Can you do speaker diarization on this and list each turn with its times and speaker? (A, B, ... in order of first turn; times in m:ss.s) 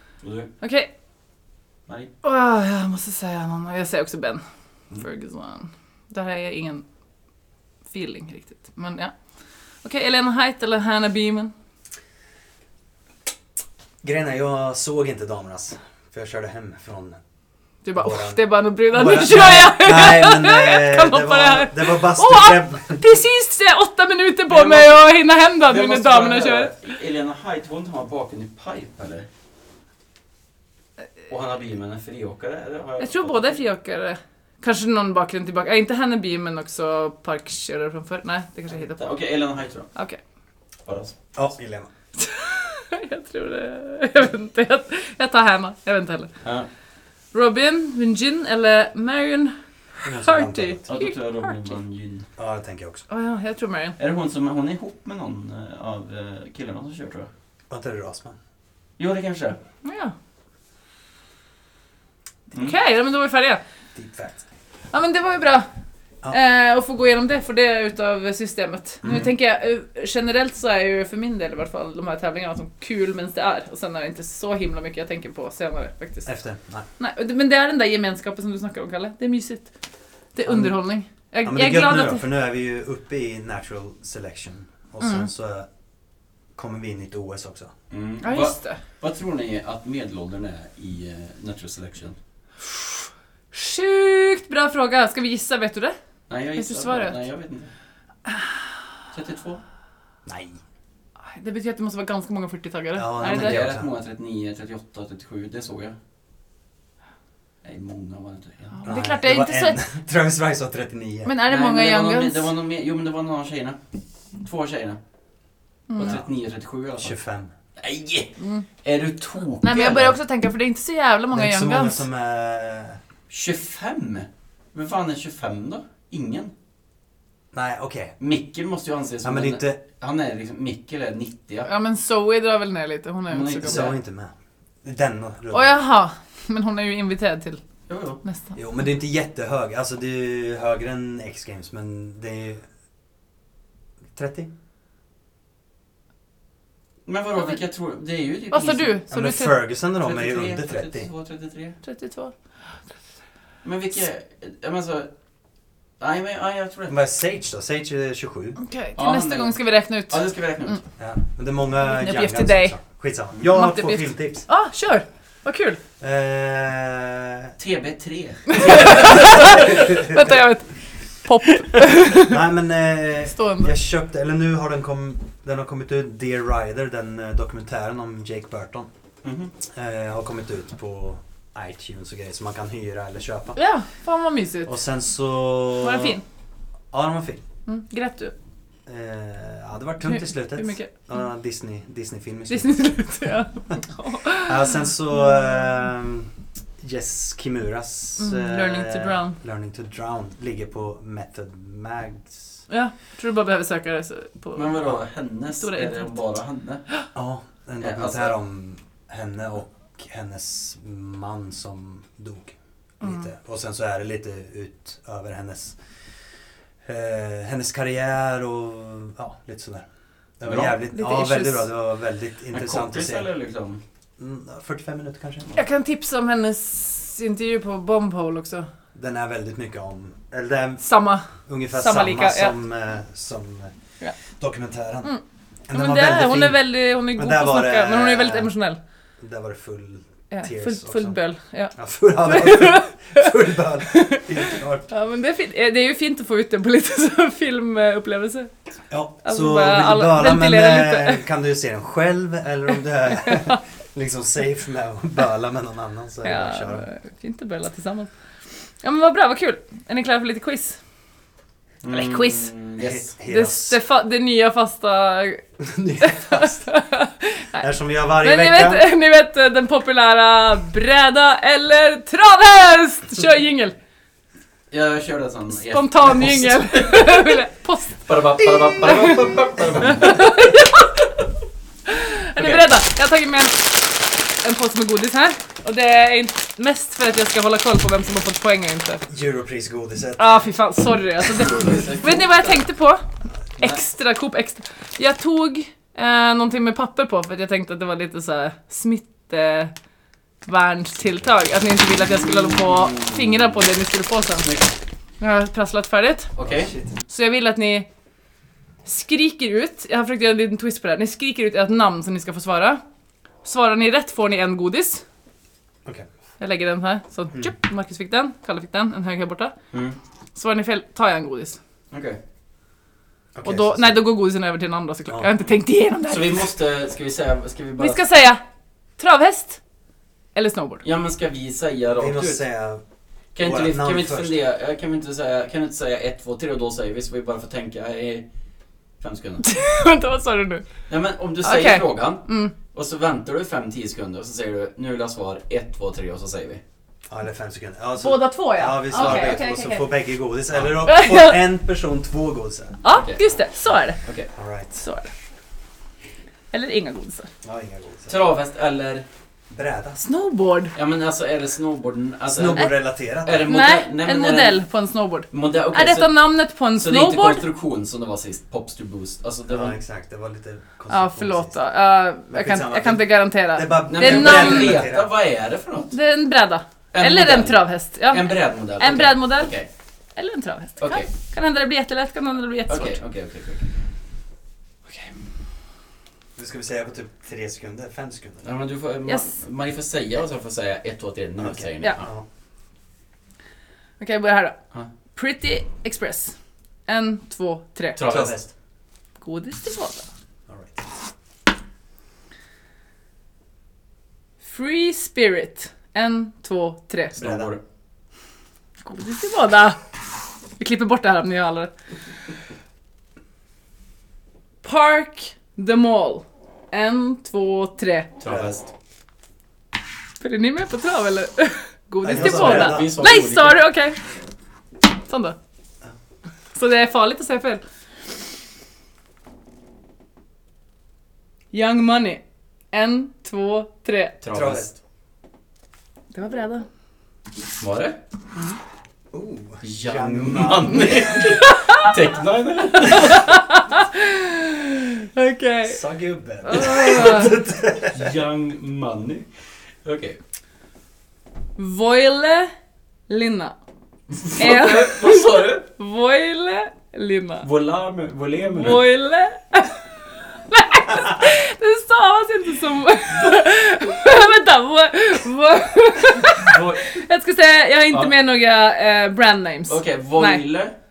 0:00.2-0:00.5 A
0:00.6-0:00.9 B
0:02.2-0:06.8 B
0:07.9-0:09.1 B
0:09.8-0:11.5 B
0:14.0-0:17.2 C
0:17.8-0:26.7 B
0:18.0-0:23.0 C
0:24.5-0:29.3 A
0:31.3-0:33.6 A
0:33.0-0:39.1 B
0:38.7-0:39.9 A
0:40.8-0:41.1 A
0:41.3-0:41.9 C
0:42.2-0:46.3 B
0:46.4-0:46.7 A
0:47.3-0:51.8 B
0:50.0-0:50.8 C
0:50.9-0:52.3 A
0:52.4-0:53.0 C
0:53.1-0:54.0 B
0:54.0-0:57.3 A
0:57.7-0:58.4 C
0:59.0-0:59.6 A
0:59.8-1:00.1 B
1:02.5-1:03.6 B
1:03.9-1:04.4 C
1:04.9-1:05.7 B
1:06.3-1:16.3 B
1:16.2-1:16.9 C
1:17.0-1:19.7 B
1:20.3-1:22.2 B
1:20.4-1:20.8 C
1:21.4-1:25.7 C
1:25.0-1:25.3 B
1:26.5-1:27.7 C
1:27.9-1:32.2 A
1:28.2-1:28.8 B
1:32.6-1:36.0 B
1:36.3-1:37.7 A
1:36.6-1:37.2 B
1:38.2-1:38.7 B
1:39.1-1:39.6 A
1:40.2-1:40.6 C
1:41.3-1:43.6 B
1:43.0-1:43.9 C
1:43.2-1:46.0 A
1:47.6-1:48.9 A
1:48.7-1:49.8 B
1:48.8-1:51.4 C
1:51.2-1:52.5 B
1:51.4-1:53.8 A
1:54.4-1:55.0 A
1:55.9-1:56.2 B
1:56.0-1:57.2 A
1:57.0-1:57.5 C
1:57.8-1:58.3 A
1:58.4-1:58.6 B
1:58.8-2:00.2 A
1:59.6-2:02.0 B
2:01.3-2:03.0 C
2:03.3-2:06.5 A
2:07.5-2:08.1 C
2:08.2-2:11.7 A
2:09.2-2:09.8 C
2:11.6-2:13.9 B
2:13.3-2:14.0 A
2:13.6-2:15.8 C
2:15.5-2:17.6 B
2:17.9-2:18.2 A
2:18.2-2:18.5 B
2:18.6-2:22.6 C
2:24.1-2:24.5 C
2:27.0-2:29.0 A
2:28.5-2:29.6 B
2:29.1-2:31.1 C
2:30.0-2:31.8 A
2:31.8-2:32.3 B
2:33.6-2:35.1 A
2:36.0-2:36.9 A
2:36.9-2:38.6 C
2:38.6-2:40.8 B
2:39.0-2:39.6 A
2:40.1-2:40.8 A
2:41.0-2:44.4 C
2:41.8-2:42.8 B
2:43.5-2:45.8 B
2:46.0-2:47.5 C
2:47.6-2:49.6 A
2:48.5-2:52.4 B
2:48.9-2:50.3 C
2:52.2-2:58.9 C
2:53.3-2:53.7 B
2:59.2-2:59.5 A
2:59.7-3:03.6 C
3:03.6-3:04.7 B
3:04.6-3:06.2 C
3:05.8-3:06.2 B
3:06.9-3:07.4 C
3:07.6-3:08.3 B
3:08.8-3:12.8 C
3:10.0-3:10.9 B
3:12.5-3:14.6 B
3:14.4-3:22.5 C
3:18.2-3:19.4 B
3:22.7-3:24.8 B
3:24.5-3:26.8 A
3:25.6-3:26.2 B
3:27.1-3:35.8 C
3:27.8-3:28.3 A
3:36.8-3:39.8 C
3:40.4-3:43.3 C
3:40.4-3:40.8 A
3:40.9-3:41.7 B
3:42.5-3:43.8 A
3:44.2-3:45.5 C
3:45.5-3:48.7 B
3:48.9-3:53.7 C
3:50.8-3:52.5 B
3:54.4-3:55.1 C
3:55.7-3:58.5 C
3:55.7-3:58.8 B
3:59.2-4:01.2 C
4:00.3-4:03.3 B
4:01.7-4:04.9 C
4:03.8-4:08.5 B
4:08.9-4:16.9 C
4:09.2-4:11.2 B
4:13.2-4:13.6 B
4:16.2-4:18.1 B
4:18.8-4:20.8 B
4:21.8-4:23.1 A
4:21.9-4:22.5 B
4:22.8-4:23.8 C
4:23.3-4:25.5 B
4:25.6-4:26.7 C
4:26.0-4:27.6 B
4:27.6-4:28.8 C
4:28.2-4:33.7 B
4:34.7-4:37.4 A
4:35.5-4:38.0 B
4:38.0-4:40.3 A
4:38.8-4:39.2 B
4:39.8-4:41.1 B
4:41.8-4:49.0 B
4:42.4-4:42.6 A
4:49.1-4:50.2 C
4:50.2-4:53.0 B
4:51.2-4:52.6 A
4:53.6-4:59.7 B
5:00.4-5:04.5 B
5:02.1-5:03.6 A
5:04.4-5:04.8 A
5:05.2-5:06.3 B
5:06.3-5:06.7 A
5:06.4-5:06.9 C
5:07.1-5:07.9 B
5:08.8-5:12.8 B
5:13.4-5:15.0 B
5:16.4-5:19.5 B
5:19.7-5:20.0 A
5:20.3-5:21.6 B
5:21.9-5:22.2 A
5:23.3-5:24.0 C
5:23.4-5:26.5 B
5:26.1-5:28.0 A
5:27.8-5:28.4 B
5:29.0-5:29.6 B
5:30.3-5:30.8 B
5:30.8-5:32.4 A
5:32.0-5:32.8 C
5:33.3-5:38.3 A
5:33.4-5:34.4 C
5:39.0-5:39.4 A
5:39.4-5:40.6 B
5:40.9-5:46.6 A
5:41.4-5:42.5 B
5:47.1-5:52.8 C
5:48.0-5:49.9 B
5:48.9-5:49.4 A
5:50.5-5:50.8 A
5:50.8-5:51.4 B
5:52.8-5:54.0 B
5:52.9-5:53.2 A
5:54.0-5:54.3 A
5:54.3-5:54.8 C
5:54.8-5:55.1 B
5:56.5-5:57.3 B
5:57.4-5:58.2 C
5:58.1-5:59.0 A
5:59.5-6:00.0 C
6:00.0-6:00.7 B
6:00.7-6:04.6 A
6:02.3-6:03.5 C
6:03.4-6:07.4 B
6:05.3-6:09.8 A
6:09.5-6:11.6 C
6:10.9-6:14.8 B
6:12.3-6:15.1 C
6:13.9-6:15.9 A
6:15.9-6:19.5 B
6:16.9-6:19.7 A
6:20.2-6:23.0 B
6:20.8-6:21.1 A
6:22.7-6:23.7 A
6:26.4-6:28.5 C
6:28.4-6:32.1 A
6:29.1-6:29.4 B
6:31.4-6:32.2 C
6:34.0-6:34.6 B
6:35.1-6:36.3 B
6:36.9-6:38.0 B
6:38.0-6:38.4 A
6:38.0-6:38.5 C
6:39.2-6:40.1 B
6:40.5-6:40.8 C
6:44.4-6:47.1 B
6:47.1-6:47.6 A
6:47.2-6:47.5 C
6:48.8-6:49.8 B
6:50.6-6:51.7 B
6:54.6-6:58.1 B
6:58.2-6:58.7 A
6:58.2-6:58.5 C
7:00.2-7:04.0 B
7:02.0-7:03.0 C
7:02.0-7:03.6 A
7:05.1-7:05.4 B
7:06.5-7:07.6 B
7:11.5-7:14.2 B
7:14.2-7:14.7 A
7:14.3-7:14.7 C
7:16.1-7:16.7 B
7:17.6-7:18.0 A
7:19.1-7:21.4 C
7:19.6-7:23.3 A
7:21.2-7:21.9 B
7:22.8-7:25.8 B
7:25.6-7:28.1 C
7:26.4-7:27.3 B
7:27.8-7:29.3 A
7:29.8-7:30.2 A
7:31.6-7:32.5 B
7:33.1-7:33.6 B
7:34.1-7:35.6 A
7:34.3-7:37.4 B
7:37.4-7:38.8 A
7:38.4-7:50.4 B
7:46.3-7:47.0 A
7:49.7-7:50.7 A